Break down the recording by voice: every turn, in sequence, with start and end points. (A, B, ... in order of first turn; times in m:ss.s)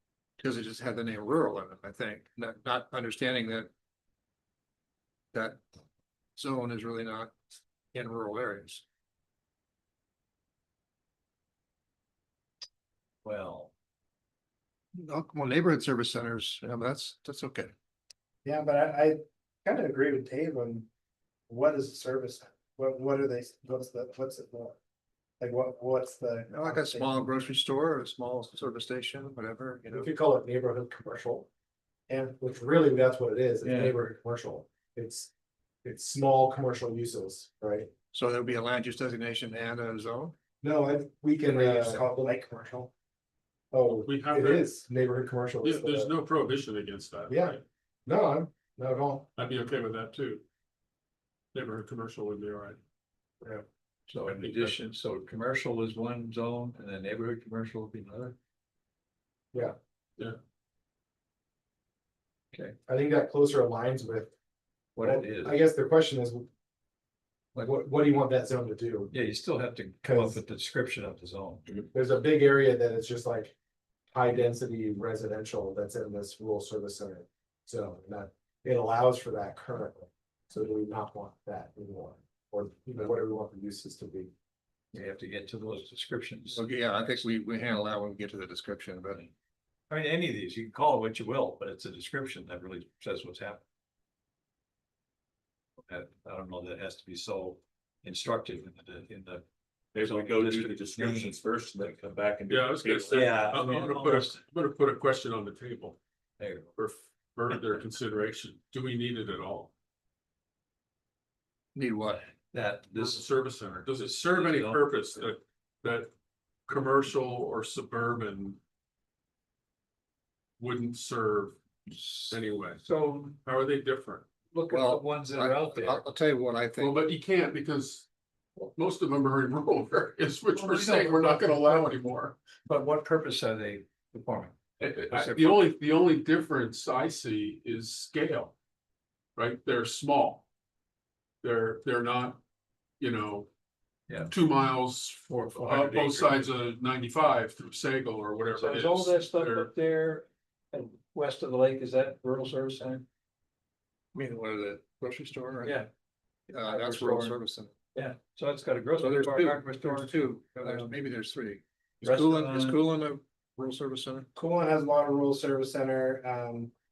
0:00.4-0:03.7 A
0:05.3-0:05.6 A
0:06.4-0:07.4 A
0:07.9-0:08.8 A
0:13.2-0:13.7 B
0:14.9-0:17.7 A
0:18.4-0:20.9 C
0:21.5-0:24.8 C
0:25.4-0:27.3 C
0:26.5-0:30.1 A
0:29.9-0:31.5 C
0:32.1-0:35.3 C
0:33.6-0:34.0 B
0:35.8-0:37.9 C
0:38.1-0:40.3 A
0:40.6-0:42.9 C
0:41.4-0:42.2 A
0:43.7-0:46.1 C
0:43.9-0:44.7 D
0:45.6-0:47.6 D
0:47.3-0:49.3 C
0:49.4-0:50.4 D
0:51.5-0:52.8 D
0:54.1-0:58.4 B
0:54.2-0:54.8 D
1:02.9-1:04.3 C
1:04.9-1:05.6 B
1:05.0-1:06.5 C
1:07.5-1:09.1 C
1:09.1-1:11.7 B
1:10.0-1:10.4 C
1:11.9-1:13.5 C
1:14.1-1:24.3 C
1:24.9-1:27.2 B
1:26.5-1:29.3 A
1:29.9-1:33.6 B
1:35.9-1:39.4 B
1:39.9-1:43.5 E
1:40.0-1:42.0 B
1:42.5-1:46.0 D
1:43.1-1:44.4 B
1:46.4-1:46.7 B
1:46.8-1:49.7 D
1:51.7-1:52.2 A
1:52.3-1:53.2 B
1:52.9-1:56.1 D
1:53.8-1:54.9 B
1:56.7-1:58.6 D
2:00.6-2:01.6 D
2:01.9-2:03.4 B
2:02.3-2:02.8 D
2:03.4-2:04.3 D
2:04.5-2:06.0 B
2:04.7-2:07.0 A
2:06.8-2:08.1 D
2:08.6-2:12.4 D
2:10.5-2:12.0 B
2:12.6-2:14.6 B
2:14.8-2:18.5 D
2:15.1-2:15.6 B
2:19.4-2:20.4 D
2:21.4-2:22.4 D
2:23.0-2:23.5 D
2:24.3-2:29.7 D
2:25.3-2:26.5 B
2:28.6-2:33.0 B
2:34.1-2:35.8 A
2:35.6-2:35.9 B
2:36.5-2:37.7 A
2:36.6-2:37.4 B
2:37.9-2:41.0 B
2:39.0-2:44.3 A
2:42.0-2:42.8 B
2:44.3-2:46.7 C